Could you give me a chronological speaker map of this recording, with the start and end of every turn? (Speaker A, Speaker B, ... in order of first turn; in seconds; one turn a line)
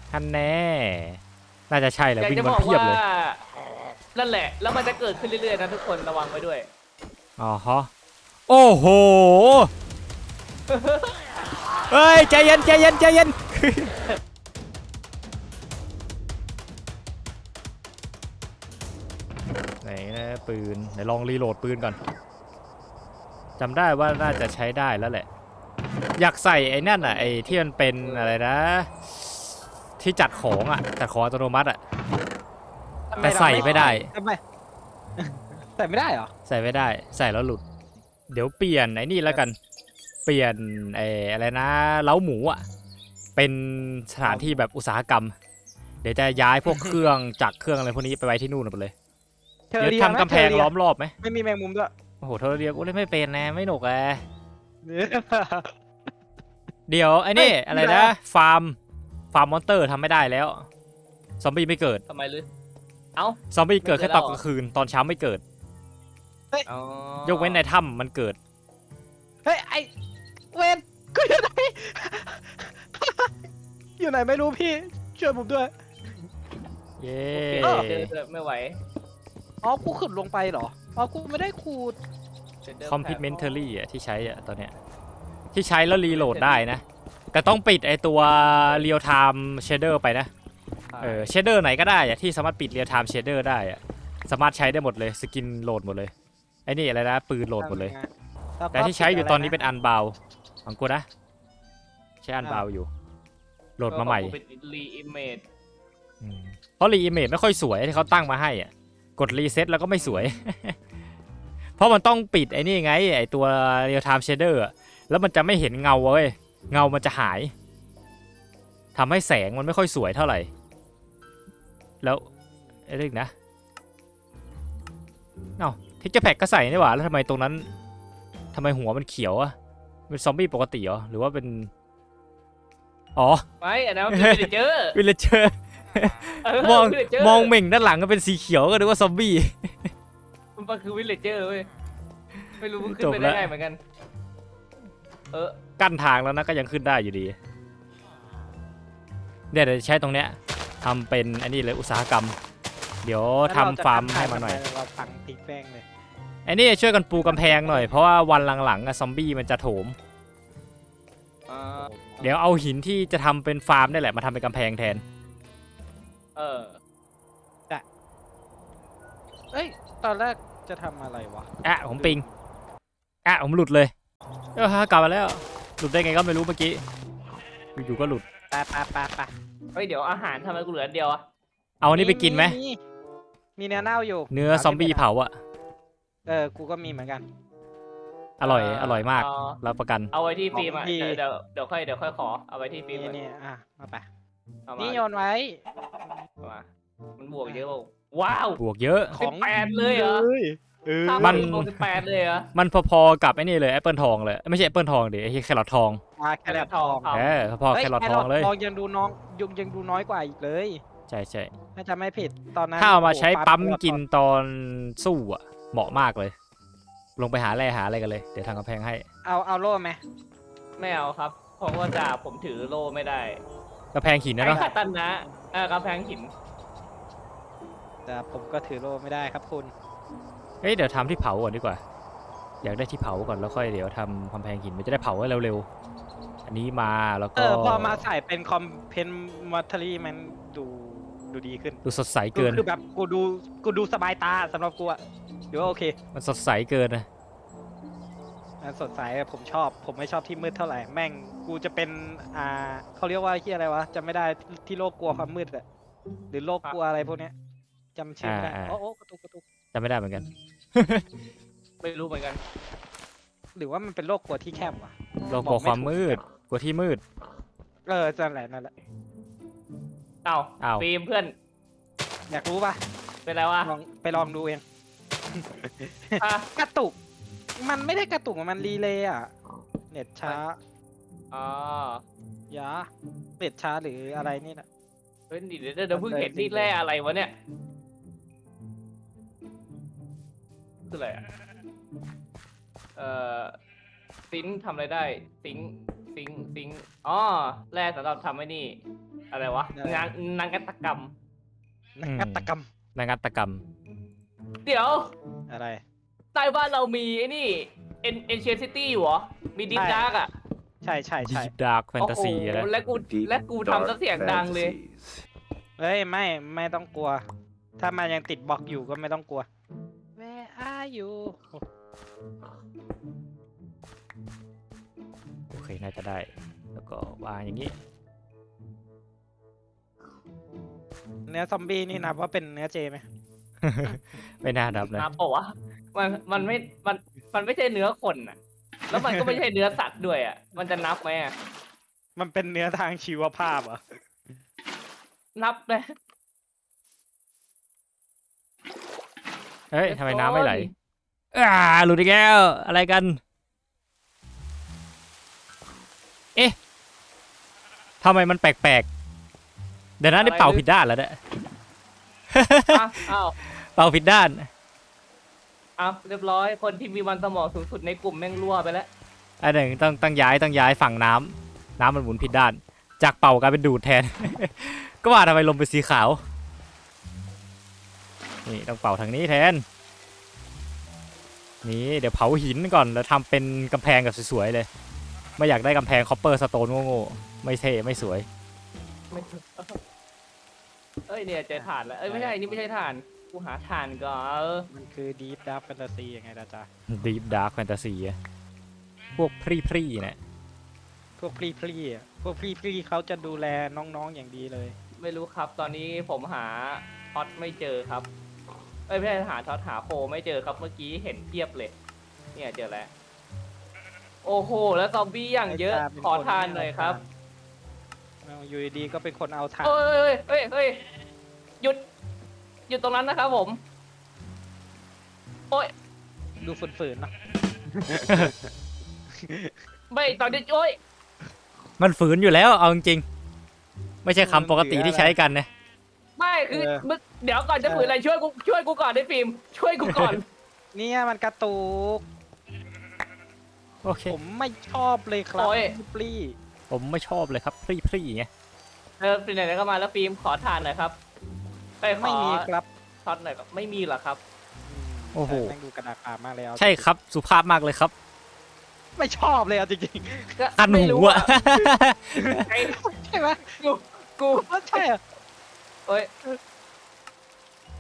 Speaker A: 0.1-3.0
Speaker B: 2.2-3.4
Speaker B: 4.2-6.7
Speaker A: 7.4-7.9
Speaker A: 8.5-9.7
Speaker B: 10.7-11.1
Speaker A: 11.9-13.9
Speaker A: 19.8-22.0
Speaker A: 23.6-25.3
Speaker A: 26.2-31.8
Speaker B: 27.0-28.3
Speaker C: 33.1-34.4
Speaker A: 33.2-34.1
Speaker B: 33.2-33.9
Speaker C: 35.2-36.3
Speaker A: 36.5-37.6
Speaker A: 38.3-39.5
Speaker A: 40.2-42.6
Speaker A: 43.4-45.3
Speaker C: 44.2-44.5
Speaker A: 46.0-48.9
Speaker C: 46.7-47.0
Speaker C: 49.7-50.7
Speaker A: 49.8-51.1
Speaker C: 51.2-51.9
Speaker A: 52.2-54.2
Speaker C: 54.8-55.7
Speaker A: 56.9-58.8
Speaker C: 57.4-58.1
Speaker A: 59.3-60.7
Speaker A: 61.4-62.0
Speaker B: 62.1-62.5
Speaker B: 63.2-64.4
Speaker A: 63.5-65.4
Speaker B: 66.7-67.6
Speaker A: 67.2-68.4
Speaker C: 69.5-69.9
Speaker C: 70.5-73.3
Speaker C: 74.0-76.2
Speaker A: 77.0-78.1
Speaker B: 77.3-78.8
Speaker C: 79.6-82.0
Speaker B: 82.6-83.3
Speaker A: 82.9-84.8
Speaker A: 85.5-90.3
Speaker B: 86.1-86.6
Speaker B: 90.9-91.3
Speaker A: 91.0-96.1
Speaker A: 96.7-97.9
Speaker C: 97.6-98.1
Speaker C: 98.6-99.6
Speaker A: 98.7-101.0
Speaker A: 102.2-102.9
Speaker A: 103.8-104.3
Speaker B: 103.9-105.4
Speaker A: 106.2-110.8
Speaker A: 111.8-117.5
Speaker A: 118.9-120.5
Speaker A: 122.9-123.3
Speaker A: 125.6-127.7
Speaker A: 128.5-129.5
Speaker A: 130.1-131.7
Speaker A: 133.2-133.4
Speaker B: 133.6-135.0
Speaker A: 134.1-139.9
Speaker B: 136.4-137.5
Speaker B: 140.6-141.7
Speaker B: 142.6-143.8
Speaker A: 142.8-143.5
Speaker B: 145.3-145.6
Speaker A: 145.8-147.3
Speaker A: 149.5-152.3
Speaker A: 153.0-154.6
Speaker C: 153.5-155.8
Speaker A: 156.5-160.0
Speaker C: 157.3-157.8
Speaker B: 161.5-161.9
Speaker C: 161.8-162.3
Speaker A: 162.2-165.0
Speaker B: 166.3-166.8
Speaker C: 169.5-172.3
Speaker A: 171.6-172.2
Speaker A: 173.2-173.9
Speaker A: 174.5-176.8
Speaker A: 177.8-178.2
Speaker C: 178.5-179.3
Speaker B: 179.8-181.2
Speaker A: 181.8-182.6
Speaker C: 181.9-182.8
Speaker C: 183.6-185.1
Speaker A: 184.3-185.4
Speaker C: 186.2-187.2
Speaker A: 188.4-190.1
Speaker B: 188.4-189.6
Speaker B: 190.1-193.2
Speaker C: 190.5-191.2
Speaker C: 192.9-194.1
Speaker B: 194.7-195.0
Speaker C: 194.8-195.6
Speaker B: 196.4-196.7
Speaker B: 197.2-198.6
Speaker A: 198.6-199.2
Speaker B: 199.2-200.2
Speaker C: 199.2-201.6
Speaker B: 201.0-202.5
Speaker A: 201.2-201.7
Speaker A: 202.5-206.0
Speaker C: 206.2-207.2
Speaker B: 206.5-207.4
Speaker A: 207.1-208.5
Speaker C: 207.7-210.8
Speaker A: 211.1-211.5
Speaker C: 211.8-214.0
Speaker A: 212.8-216.3
Speaker A: 217.2-219.0
Speaker C: 219.2-220.0
Speaker B: 220.8-223.4
Speaker A: 223.9-224.7
Speaker B: 224.4-226.3
Speaker C: 228.1-229.7
Speaker A: 230.6-231.8
Speaker A: 232.6-235.7
Speaker A: 236.4-238.0
Speaker C: 237.3-241.8
Speaker A: 241.8-242.6
Speaker C: 242.3-245.0
Speaker C: 245.5-246.0
Speaker A: 246.1-247.1
Speaker C: 248.6-255.6
Speaker C: 256.3-257.3
Speaker C: 258.0-259.4
Speaker A: 258.2-258.8
Speaker A: 259.7-261.1
Speaker B: 261.8-262.4
Speaker C: 263.6-266.2
Speaker A: 265.3-267.0
Speaker C: 267.9-268.7
Speaker B: 270.2-271.3
Speaker A: 270.6-270.9
Speaker C: 272.3-272.8
Speaker B: 273.3-273.7
Speaker C: 273.6-274.6
Speaker C: 275.3-277.0
Speaker B: 276.2-276.5
Speaker C: 277.6-279.3
Speaker C: 279.9-280.6
Speaker B: 281.3-282.0
Speaker C: 282.5-282.9
Speaker C: 283.4-284.6
Speaker B: 285.3-287.3
Speaker C: 285.9-286.7
Speaker B: 290.9-291.2
Speaker B: 293.0-293.6
Speaker B: 294.3-298.8
Speaker B: 299.3-301.1
Speaker C: 299.8-300.1
Speaker C: 302.0-302.7
Speaker A: 302.1-303.6
Speaker B: 304.6-305.1
Speaker C: 305.5-305.8
Speaker B: 306.4-310.3
Speaker C: 309.7-310.1
Speaker C: 310.8-311.5
Speaker A: 311.2-312.7
Speaker B: 312.0-314.8
Speaker C: 315.8-317.2
Speaker C: 317.8-319.5
Speaker C: 320.2-321.6
Speaker A: 325.5-327.8
Speaker C: 331.3-333.0
Speaker A: 333.6-335.1
Speaker B: 334.9-338.4
Speaker B: 338.9-341.4
Speaker C: 338.9-339.4
Speaker C: 342.2-343.8
Speaker B: 345.4-345.9
Speaker A: 349.7-350.7
Speaker B: 349.9-350.7
Speaker A: 351.3-353.2
Speaker A: 358.0-358.9
Speaker A: 360.0-361.2
Speaker B: 360.2-360.6
Speaker A: 362.3-362.9
Speaker B: 362.7-363.4
Speaker A: 363.6-364.5
Speaker B: 365.8-368.9
Speaker A: 369.4-376.2
Speaker A: 378.4-379.6
Speaker A: 381.6-384.7
Speaker A: 385.4-388.3
Speaker B: 389.1-389.8
Speaker B: 391.1-394.7
Speaker C: 391.6-392.6
Speaker C: 394.7-396.7
Speaker A: 396.9-398.2
Speaker A: 399.2-400.2
Speaker C: 401.2-404.8
Speaker B: 405.0-408.1
Speaker B: 408.9-411.7
Speaker B: 412.4-412.9
Speaker B: 414.2-417.0
Speaker C: 415.5-417.1
Speaker C: 418.2-419.8
Speaker B: 419.6-420.9
Speaker B: 422.7-423.6
Speaker C: 426.4-427.1
Speaker C: 427.7-428.3
Speaker A: 428.1-428.3
Speaker C: 429.2-429.5
Speaker B: 429.9-430.8
Speaker A: 431.8-433.0
Speaker A: 434.0-435.5
Speaker C: 434.2-435.2
Speaker B: 436.2-440.2
Speaker C: 436.5-436.8
Speaker C: 437.6-437.9
Speaker A: 439.9-440.2
Speaker C: 440.7-442.0
Speaker A: 443.8-444.2
Speaker C: 444.1-446.4
Speaker B: 445.4-445.8
Speaker A: 446.7-448.3
Speaker B: 449.0-451.0
Speaker B: 451.8-452.5
Speaker C: 452.0-452.7
Speaker B: 453.0-454.2
Speaker C: 454.6-456.9
Speaker A: 455.1-455.6
Speaker A: 456.6-457.9
Speaker C: 459.0-460.4
Speaker B: 460.4-461.4
Speaker A: 460.6-462.5
Speaker C: 462.2-463.6
Speaker B: 462.3-462.8
Speaker B: 463.6-464.9
Speaker C: 464.5-465.0